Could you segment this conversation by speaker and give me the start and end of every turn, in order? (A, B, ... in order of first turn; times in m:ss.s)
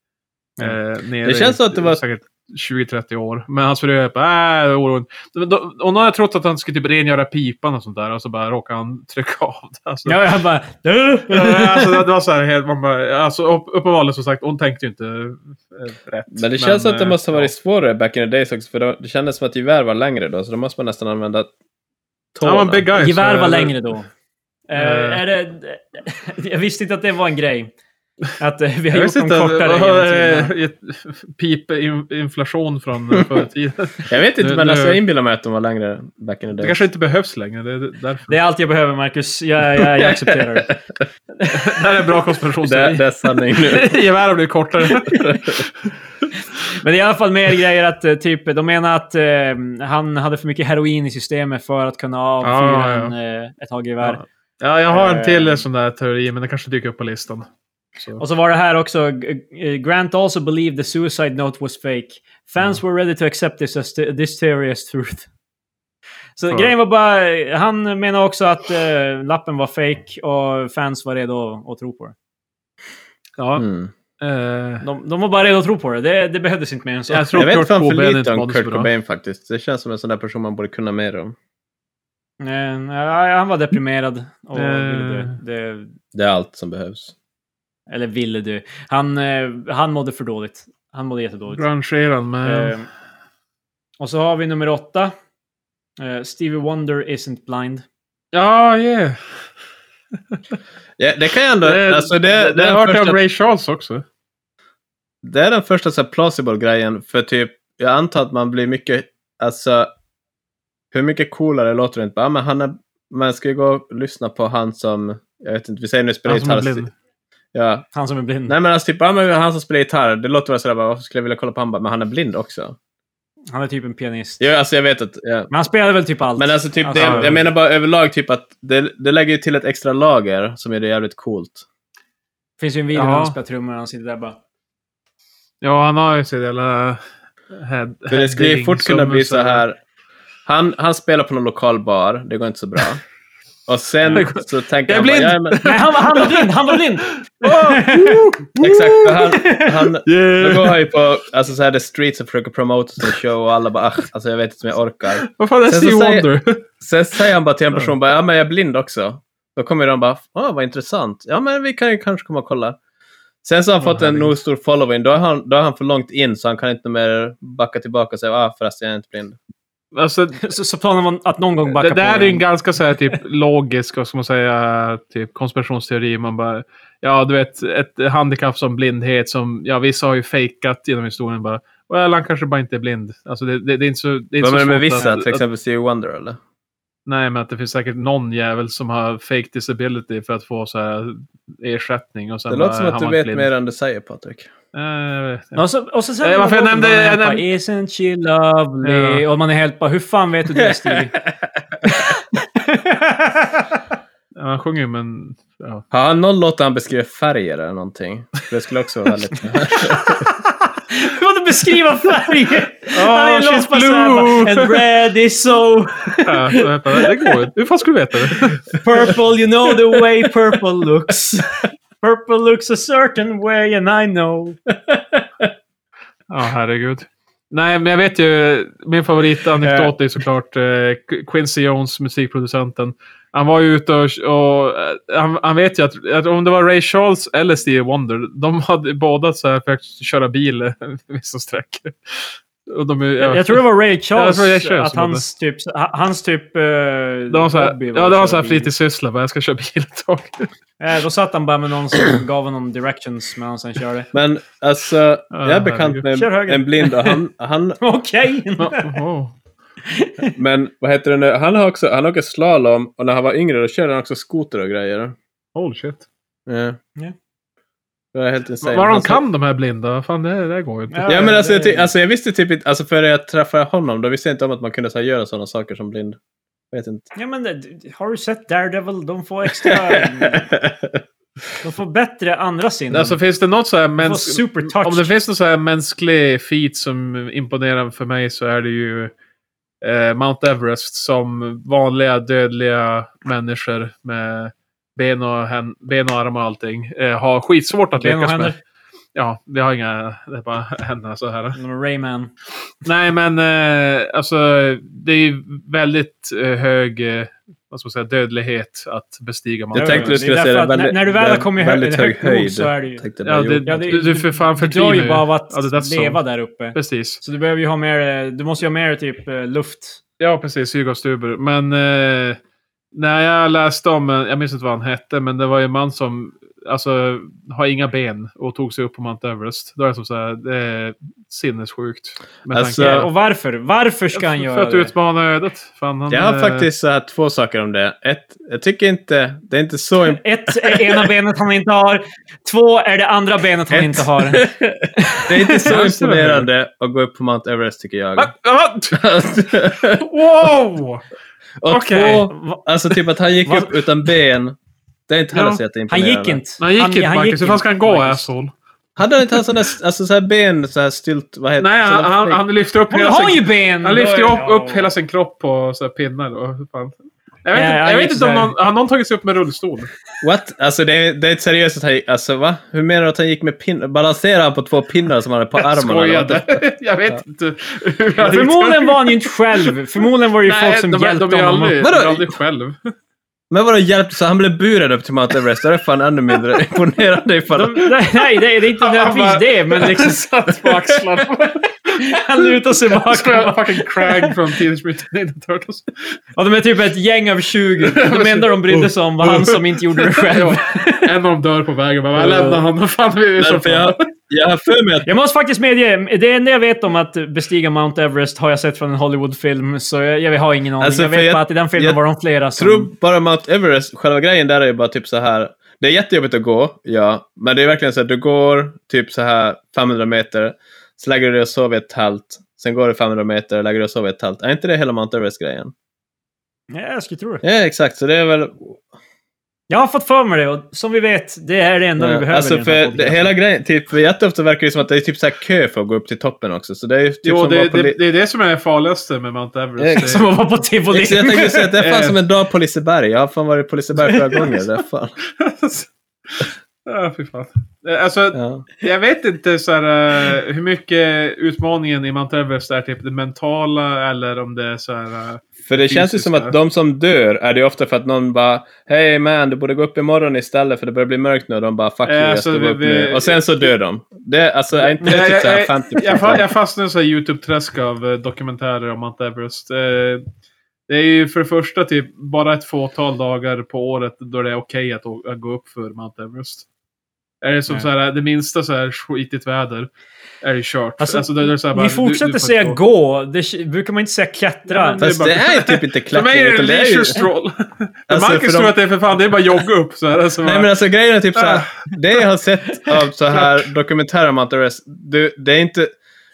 0:00.6-0:10.2 A
0:01.2-0:02.0 B
0:10.0-0:12.0 C
0:11.3-0:17.5 A
0:16.3-0:21.5 B
0:22.3-0:22.8 B
0:22.4-0:23.7 A
0:22.9-0:24.1 C
0:24.7-0:27.7 C
0:24.7-0:25.2 A
0:28.4-0:30.5 C
0:28.9-0:35.0 A
0:34.0-0:36.8 B
0:36.6-0:38.3 A
0:38.3-0:40.7 C
0:41.5-0:45.9 A
0:42.6-0:43.9 B
0:45.2-0:45.6 B
0:46.8-0:54.2 C
0:52.4-0:53.1 A
0:54.0-0:58.2 A
0:54.9-0:55.6 C
0:58.2-1:05.3 C
1:06.4-1:12.1 C
1:13.4-1:13.6 A
1:13.6-1:13.9 B
1:14.2-1:14.8 A
1:14.8-1:17.5 C
1:17.1-1:18.9 A
1:17.4-1:21.3 B
1:22.4-1:25.9 C
1:24.5-1:25.4 A
1:26.1-1:27.1 B
1:27.9-1:31.6 C
1:31.5-1:32.8 A
1:32.4-1:32.9 C
1:34.0-1:35.1 C
1:36.0-1:37.8 C
1:38.3-1:39.2 A
1:41.0-1:43.2 B
1:41.6-1:44.0 A
1:45.2-1:49.9 B
1:50.9-1:56.9 B
1:56.2-1:56.9 A
1:57.5-1:57.8 B
1:57.9-1:58.5 C
1:58.5-2:02.8 B
2:03.5-2:04.4 C
2:04.4-2:05.5 B
2:05.5-2:07.4 C
2:06.4-2:11.6 B
2:07.0-2:07.4 A
2:12.6-2:14.4 C
2:12.9-2:13.3 A
2:15.6-2:17.0 A
2:17.5-2:19.6 A
2:18.1-2:19.8 B
2:20.4-2:23.0 B
2:23.7-2:25.6 B
2:24.1-2:29.4 A
2:25.6-2:28.3 C
2:28.6-2:36.3 B
2:29.4-2:29.8 C
2:30.0-2:30.9 A
2:35.2-2:36.6 A
2:36.8-2:42.8 B
2:43.4-2:49.4 B
2:43.8-2:44.3 A
2:49.9-2:50.5 A
2:50.4-2:52.4 C
2:51.7-3:05.4 A
3:04.4-3:06.4 B
3:07.0-3:13.5 A
3:12.5-3:14.5 B
3:14.7-3:15.6 A
3:15.6-3:21.2 C
3:16.2-3:17.4 A
3:18.8-3:19.2 A
3:21.8-3:23.8 C
3:24.3-3:25.8 A
3:25.9-3:30.2 B
3:29.8-3:37.3 C
3:32.9-3:34.8 A
3:36.2-3:38.8 A
3:38.8-3:44.6 C
3:44.9-3:45.4 B
3:46.3-4:05.2 A
3:49.6-3:49.9 C
4:03.2-4:08.7 C
4:07.3-4:10.5 A
4:10.8-4:14.1 C
4:14.1-4:17.8 B
4:15.3-4:16.0 A
4:16.1-4:17.2 C
4:17.8-4:19.0 C
4:18.6-4:19.3 A
4:19.8-4:20.3 C
4:20.4-4:25.1 B
4:25.5-4:26.0 A
4:26.5-4:26.8 B
4:28.1-4:29.2 B
4:28.6-4:31.3 A
4:30.9-4:31.9 C
4:31.0-4:36.2 B
4:36.7-4:37.1 B
4:37.1-4:40.4 C
4:39.6-4:41.0 B
4:41.6-4:43.2 C
4:42.9-4:49.1 A
4:44.0-4:45.1 C
4:49.8-4:58.5 A
4:57.9-4:58.6 C
4:59.1-5:01.6 A
5:01.6-5:02.3 C
5:02.8-5:10.2 A
5:09.7-5:13.1 C
5:09.7-5:13.9 B
5:13.2-5:16.2 A
5:13.6-5:20.0 C
5:16.7-5:17.2 A
5:20.2-5:22.4 A
5:22.9-5:33.1 A
5:32.5-5:33.1 B
5:32.8-5:34.9 C
5:34.1-5:36.7 A
5:36.1-5:40.2 B
5:40.1-5:45.7 C
5:43.7-5:48.3 B
5:45.5-5:46.5 A
5:48.2-5:49.0 A
5:48.9-5:50.5 B
5:50.0-5:51.0 A
5:51.6-5:54.6 B
5:51.7-5:52.3 A
5:52.3-5:52.6 C
5:53.4-5:53.7 C
5:55.1-5:56.4 B
5:55.3-5:55.6 A
5:55.9-5:58.2 C
5:56.6-5:58.5 A
5:59.0-6:02.4 B
6:01.6-6:09.9 A
6:02.9-6:04.9 C
6:07.5-6:08.5 C
6:10.2-6:17.2 B
6:15.6-6:19.8 A
6:18.2-6:21.8 C
6:20.4-6:22.9 A
6:21.8-6:22.3 B
6:23.5-6:27.9 B
6:27.5-6:30.8 C
6:28.8-6:36.2 A
6:32.0-6:34.4 C
6:36.4-6:41.1 C
6:37.8-6:44.0 A
6:42.2-6:42.6 C
6:43.4-6:45.1 B
6:45.0-6:52.9 C
6:50.8-6:52.0 B
6:52.6-7:05.7 B
7:06.7-7:07.4 C
7:07.4-7:08.8 B
7:09.7-7:13.3 C
7:12.0-7:18.0 B
7:17.2-7:20.3 A
7:19.8-7:20.1 B
7:19.9-7:21.7 C
7:20.9-7:25.2 B
7:21.8-7:22.2 A
7:25.4-7:36.5 A
7:28.3-7:28.7 B
7:35.6-7:46.4 B
7:42.0-7:43.6 A
7:44.8-7:50.2 A
7:50.9-7:56.6 A
7:57.4-7:59.9 A
8:00.4-8:02.8 A
8:01.0-8:05.0 C
8:04.7-8:10.7 A
8:05.0-8:07.2 B
8:08.1-8:08.7 B
8:10.4-8:15.9 B
8:11.3-8:12.2 A
8:13.3-8:13.7 A